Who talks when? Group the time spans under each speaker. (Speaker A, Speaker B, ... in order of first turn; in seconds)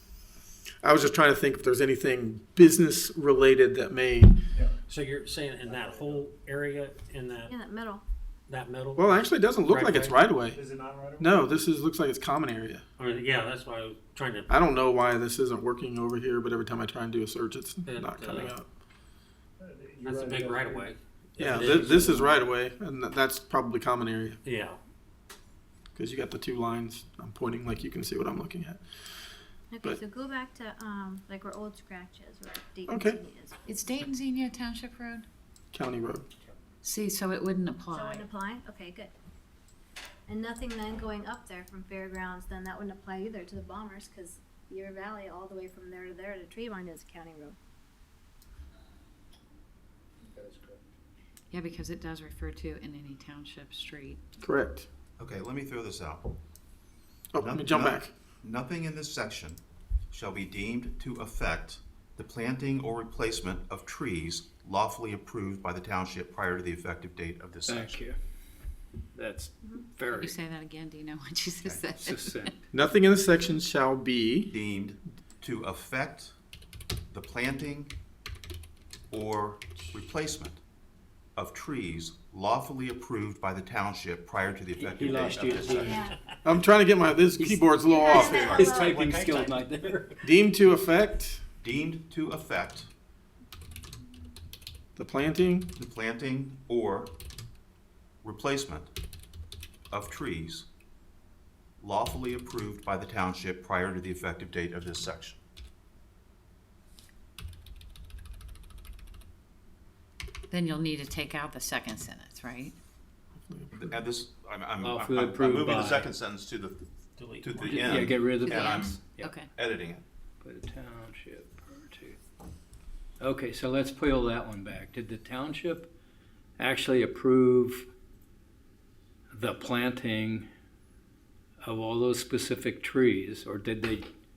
Speaker A: 0.8-4.4, 8.9-10.6, 11.2-12.8, 14.5-18.7, 21.4-24.4, 25.9-28.8, 32.9-33.2, 35.7-36.2, 54.4-54.9, 57.3-58.1, 72.7-74.5, 86.4-88.6, 90.2-91.4, 95.0-95.7, 113.5-114.0
Speaker B: 4.5-4.8, 5.6-6.3, 10.5-11.6, 19.6-22.1, 36.3-36.7, 50.2-50.9, 89.1-89.5
Speaker C: 4.9-7.5, 8.5-10.2, 13.0-14.5, 17.8-18.5, 20.0-22.4, 24.4-24.8, 89.0-90.2, 117.2-117.9
Speaker D: 7.4-8.0, 29.7-33.8, 37.9-39.1, 40.3-47.6, 85.8-86.2, 87.8-89.0
Speaker E: 33.7-35.2, 36.8-38.3, 51.5-54.2, 70.0-72.3, 110.5-112.8, 118.4-119.5
Speaker F: 55.2-56.3, 57.4-68.0, 74.5-76.3, 77.1-77.9, 79.1-80.6, 81.3-86.1, 88.3-89.0, 91.6-92.9, 95.8-97.1, 98.2-98.9, 99.9-100.7, 101.8-105.4, 113.8-116.8, 117.4-120.0
Speaker G: 67.7-68.2, 69.1-70.4, 72.0-72.5, 84.8-86.1, 87.4-90.1, 114.8-116.1, 117.6-119.3, 120.4-122.2, 123.2-125.9, 126.6-127.9, 129.3-130.5, 131.6-134.1